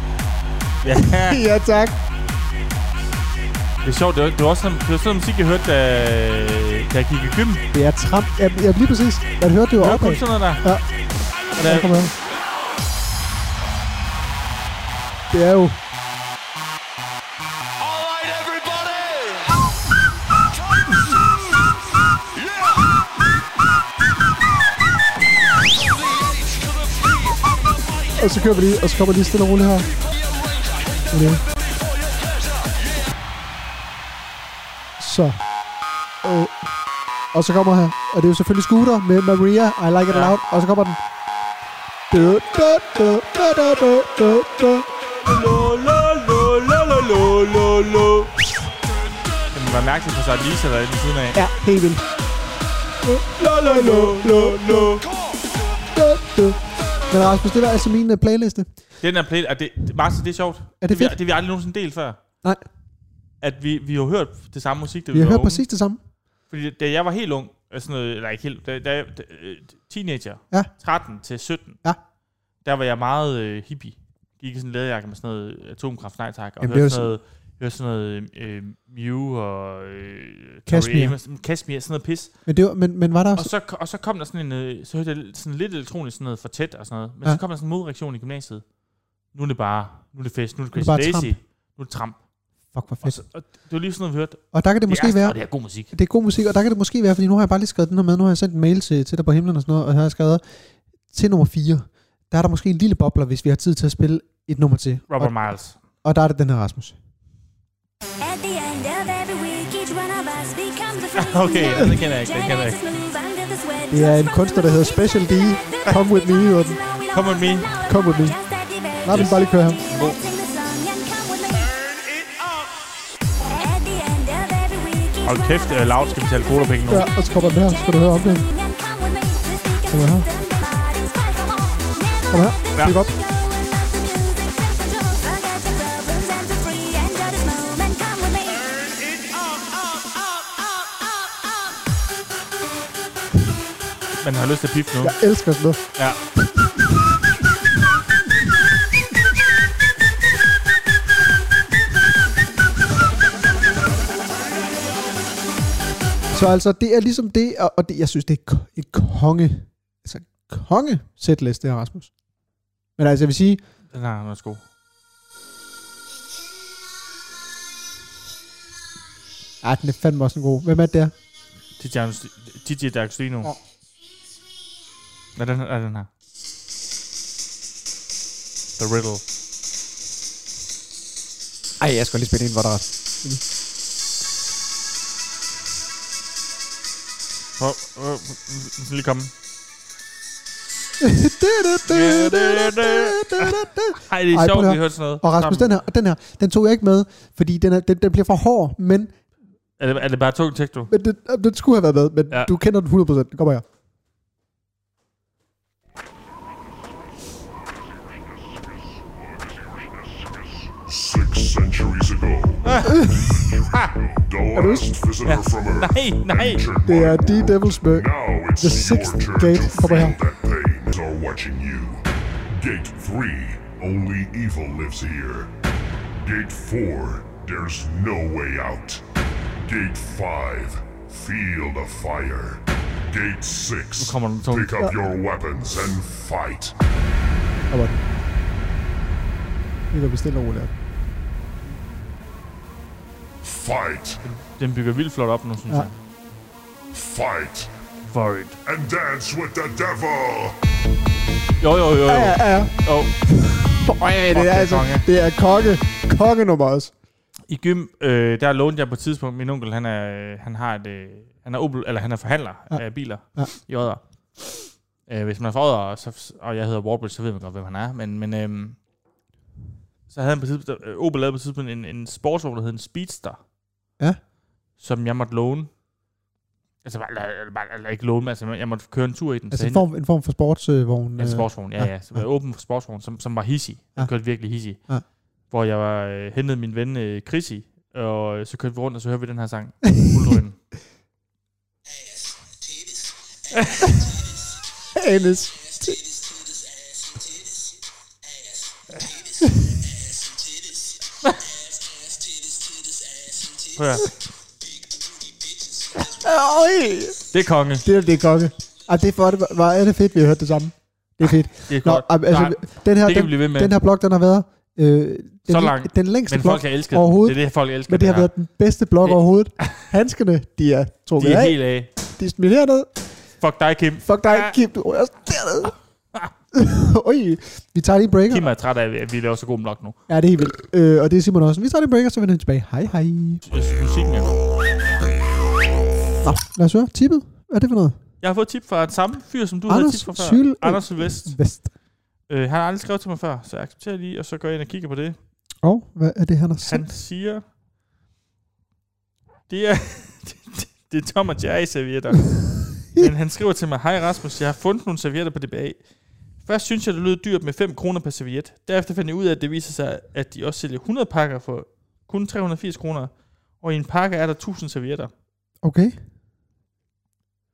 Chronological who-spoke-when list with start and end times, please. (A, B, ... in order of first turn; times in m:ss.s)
0:00.8-0:01.4 A
0:01.1-0:02.0 B
0:03.8-0:07.6 A
0:07.7-0:10.8 B
0:09.8-0:10.6 A
0:11.5-0:12.1 B
0:11.6-0:12.0 A
0:15.3-0:15.8 B
0:17.8-0:19.6 C
0:20.8-0:21.6 C
0:22.4-0:22.9 C
0:25.9-0:27.8 C
0:28.2-0:29.9 B
0:30.6-0:31.0 C
0:31.1-0:31.4 B
0:35.0-0:35.4 B
0:36.2-0:36.7 B
0:37.3-0:41.0 B
0:40.1-0:40.4 A
0:42.1-0:44.9 B
0:45.2-0:48.3 A
0:49.5-0:51.4 A
0:51.3-0:52.0 B
0:53.0-0:55.0 B
0:53.4-0:55.0 A
0:55.9-0:58.7 B
0:59.0-1:02.2 A
1:00.8-1:01.2 B
1:03.4-1:05.6 A
1:05.1-1:06.0 B
1:06.5-1:11.8 A
1:12.6-1:22.4 A
1:16.6-1:17.1 B
1:20.7-1:21.2 B
1:22.4-1:23.5 B
1:23.3-1:28.7 A
1:29.3-1:32.2 A
1:30.7-1:31.4 B
1:32.7-1:33.2 B
1:33.0-1:35.9 A
1:34.5-1:47.0 B
1:45.1-1:45.8 A
1:48.2-2:01.7 D
1:51.2-1:52.8 A
1:53.9-1:56.8 B
1:57.1-1:57.7 A
1:57.8-1:58.4 B
1:59.0-1:59.8 B
1:59.1-2:00.2 A
2:01.7-2:02.8 C
2:03.5-2:18.6 D
2:05.2-2:07.1 A
2:06.9-2:08.4 B
2:09.9-2:10.3 B
2:12.3-2:13.1 B
2:18.7-2:20.2 C
2:24.2-2:25.2 A
2:25.0-2:26.7 B
2:25.9-2:26.2 A
2:36.3-2:42.1 B
2:43.0-2:43.6 B
2:43.9-2:44.6 A
2:49.6-2:51.1 B
2:51.8-2:53.5 A
2:55.4-2:56.1 A
2:58.8-2:59.2 A
3:01.8-3:03.4 B
3:07.6-3:09.3 A
3:11.0-3:19.2 B
3:11.9-3:15.8 A
3:19.8-3:20.9 A
3:20.9-3:23.6 B
3:26.4-3:26.9 E
3:27.4-3:45.5 E
3:32.6-3:33.1 A
3:32.9-3:33.4 B
3:33.7-3:34.0 A
3:34.5-3:35.0 B
3:35.2-3:36.6 A
3:36.8-3:40.2 B
3:46.2-3:49.0 E
3:49.6-3:56.7 E
3:54.0-3:54.8 A
3:57.7-3:58.0 B
3:59.9-4:00.7 B
4:03.4-4:04.2 E
4:04.2-4:05.9 A
4:06.9-4:07.7 E
4:08.1-4:08.6 A
4:08.6-4:10.6 E
4:11.6-4:13.2 A
4:12.0-4:16.9 B
4:14.3-4:15.1 A
4:17.5-4:28.8 A
4:22.7-4:23.5 B
4:30.1-4:33.4 A
4:34.8-4:35.7 A
4:36.8-4:39.9 A
4:39.5-4:42.2 B
4:41.2-4:50.6 A
4:44.0-4:45.0 B
4:53.5-4:53.9 A
4:54.9-4:56.0 B
5:03.7-5:04.1 A
5:06.0-5:07.2 B
5:07.3-5:07.8 A
5:07.8-5:22.9 B
5:11.7-5:13.7 A
5:15.5-5:18.3 A
5:19.0-5:19.7 A
5:21.2-5:21.9 A
5:23.4-5:24.6 A
5:24.0-5:25.7 B
5:26.5-5:28.5 B
5:28.3-5:30.0 A
5:30.1-5:33.4 B
5:33.4-5:34.3 A
5:36.2-5:38.0 B
5:38.2-5:41.4 A
5:39.7-5:41.7 B
5:42.3-5:45.2 A
5:45.6-5:46.9 B
5:46.6-5:47.4 A
5:49.5-6:05.1 A
6:05.6-6:06.0 B